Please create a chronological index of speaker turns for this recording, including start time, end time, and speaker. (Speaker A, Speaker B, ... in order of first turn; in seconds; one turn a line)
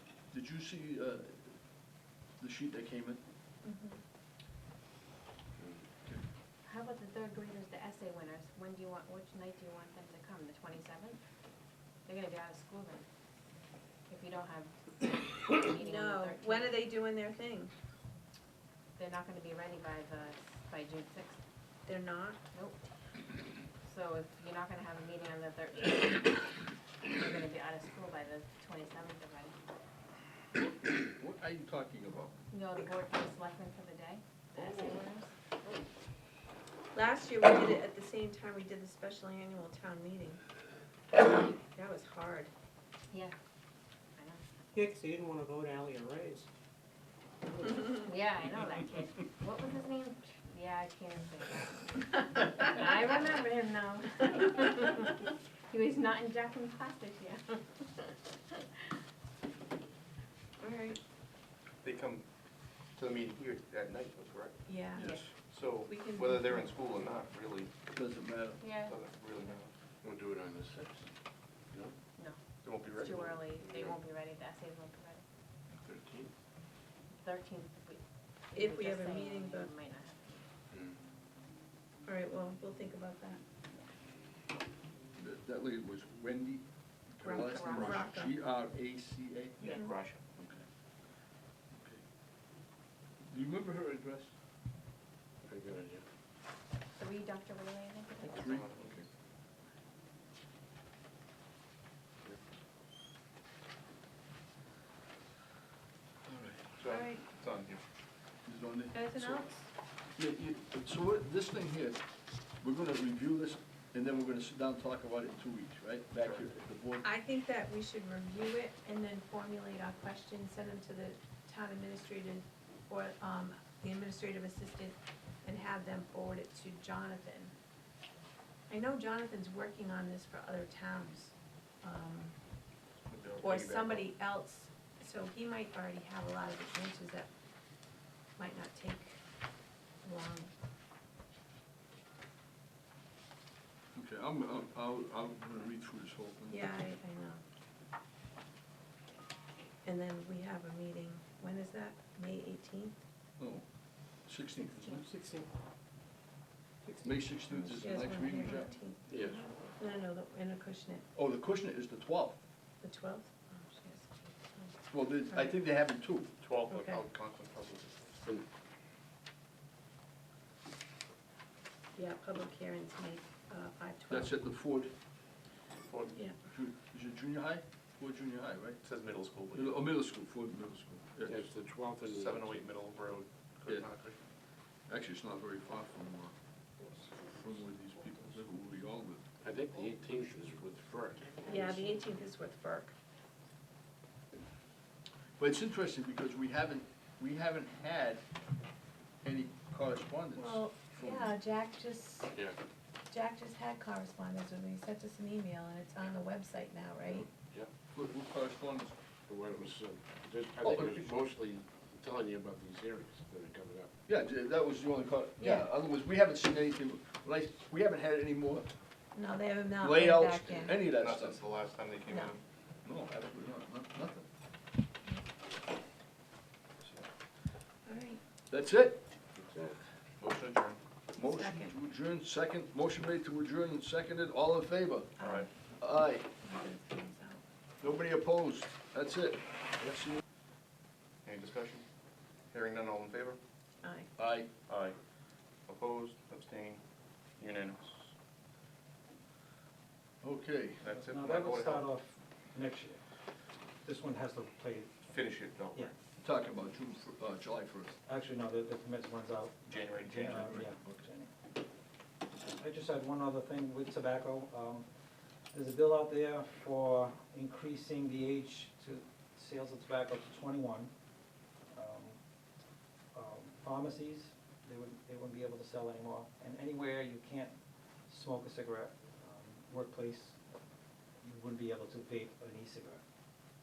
Speaker A: 0.3-3.2
Speaker B: 3.6-4.0
Speaker C: 5.6-5.8
Speaker D: 6.6-11.2
Speaker D: 12.1-13.1
Speaker D: 14.1-16.8
Speaker B: 15.7-17.7
Speaker D: 18.9-21.4
Speaker B: 21.9-22.4
Speaker D: 23.8-26.6
Speaker D: 27.1-29.5
Speaker A: 30.5-32.3
Speaker D: 32.5-35.3
Speaker B: 36.9-40.4
Speaker B: 41.2-42.5
Speaker D: 43.1-43.4
Speaker D: 44.1-44.4
Speaker E: 44.7-46.5
Speaker E: 47.5-47.8
Speaker D: 47.9-58.5
Speaker B: 60.6-61.0
Speaker F: 61.8-62.2
Speaker F: 62.9-64.7
Speaker B: 64.7-65.3
Speaker A: 65.0-65.3
Speaker F: 65.3-67.7
Speaker B: 65.9-66.7
Speaker A: 67.9-68.7
Speaker D: 68.6-69.0
Speaker F: 68.7-69.7
Speaker C: 70.0-71.1
Speaker D: 72.2-75.2
Speaker F: 72.6-73.5
Speaker C: 73.6-74.0
Speaker C: 75.8-76.3
Speaker D: 77.2-80.5
Speaker B: 78.5-79.7
Speaker C: 80.7-81.0
Speaker B: 82.0-83.4
Speaker A: 85.2-89.5
Speaker B: 87.2-88.3
Speaker D: 87.4-88.0
Speaker F: 89.6-90.3
Speaker A: 91.7-92.0
Speaker A: 93.3-94.3
Speaker C: 95.4-96.0
Speaker D: 97.0-98.4
Speaker A: 98.2-99.0
Speaker F: 98.4-99.0
Speaker A: 106.2-106.7
Speaker F: 106.8-107.8
Speaker B: 106.9-107.3
Speaker A: 108.5-109.5
Speaker B: 108.9-109.7
Speaker A: 110.2-112.0
Speaker A: 112.6-117.0
Speaker F: 116.2-116.5
Speaker B: 117.0-127.5
Speaker B: 128.7-132.3
Speaker F: 133.1-134.1
Speaker B: 133.4-137.3
Speaker B: 138.4-139.2
Speaker B: 140.0-140.5
Speaker A: 143.9-146.7
Speaker B: 146.5-147.4
Speaker B: 149.8-152.9
Speaker A: 153.4-153.6
Speaker A: 154.2-155.1
Speaker E: 155.0-155.5
Speaker E: 156.8-157.3
Speaker A: 157.0-158.8
Speaker B: 157.5-161.0
Speaker C: 159.1-159.5
Speaker A: 161.1-162.4
Speaker B: 162.8-165.6
Speaker A: 164.9-166.4
Speaker F: 166.3-168.2
Speaker B: 166.7-167.1
Speaker B: 171.9-174.4
Speaker A: 174.1-174.9
Speaker F: 175.8-176.2
Speaker A: 176.4-178.8
Speaker F: 178.8-179.9
Speaker A: 179.5-181.4
Speaker C: 181.2-182.7
Speaker F: 182.0-184.2
Speaker A: 184.9-186.3
Speaker A: 187.3-189.2
Speaker C: 189.4-191.8
Speaker B: 191.4-192.9
Speaker A: 195.4-198.2
Speaker A: 199.2-201.3
Speaker B: 200.3-202.3
Speaker B: 203.1-207.3
Speaker C: 207.1-207.7
Speaker A: 207.9-208.9
Speaker C: 209.3-213.9
Speaker A: 210.6-211.2
Speaker A: 214.1-218.7
Speaker B: 215.4-215.7
Speaker B: 219.1-220.9
Speaker A: 219.8-221.4
Speaker F: 220.9-222.4
Speaker B: 222.1-222.3
Speaker A: 222.8-224.3
Speaker B: 227.8-228.2
Speaker A: 228.5-229.0
Speaker C: 229.3-229.8
Speaker F: 230.2-230.8
Speaker A: 231.2-235.2
Speaker B: 231.2-231.7
Speaker F: 235.2-235.5
Speaker B: 235.2-235.5
Speaker A: 235.8-236.2
Speaker B: 236.4-237.4
Speaker A: 237.8-240.2
Speaker F: 241.2-241.8
Speaker F: 242.5-243.4
Speaker B: 243.8-244.1
Speaker A: 244.2-244.5
Speaker F: 244.6-245.0
Speaker F: 245.7-246.8
Speaker F: 247.4-248.1
Speaker A: 250.2-250.9
Speaker F: 250.8-251.9
Speaker G: 250.9-253.0
Speaker G: 253.8-255.0
Speaker F: 255.1-255.9
Speaker A: 256.2-257.9
Speaker G: 258.0-261.3
Speaker F: 259.6-260.8
Speaker G: 262.5-264.9
Speaker G: 265.5-270.9
Speaker G: 271.7-272.2
Speaker G: 273.1-277.5
Speaker G: 278.1-280.4
Speaker G: 281.2-283.0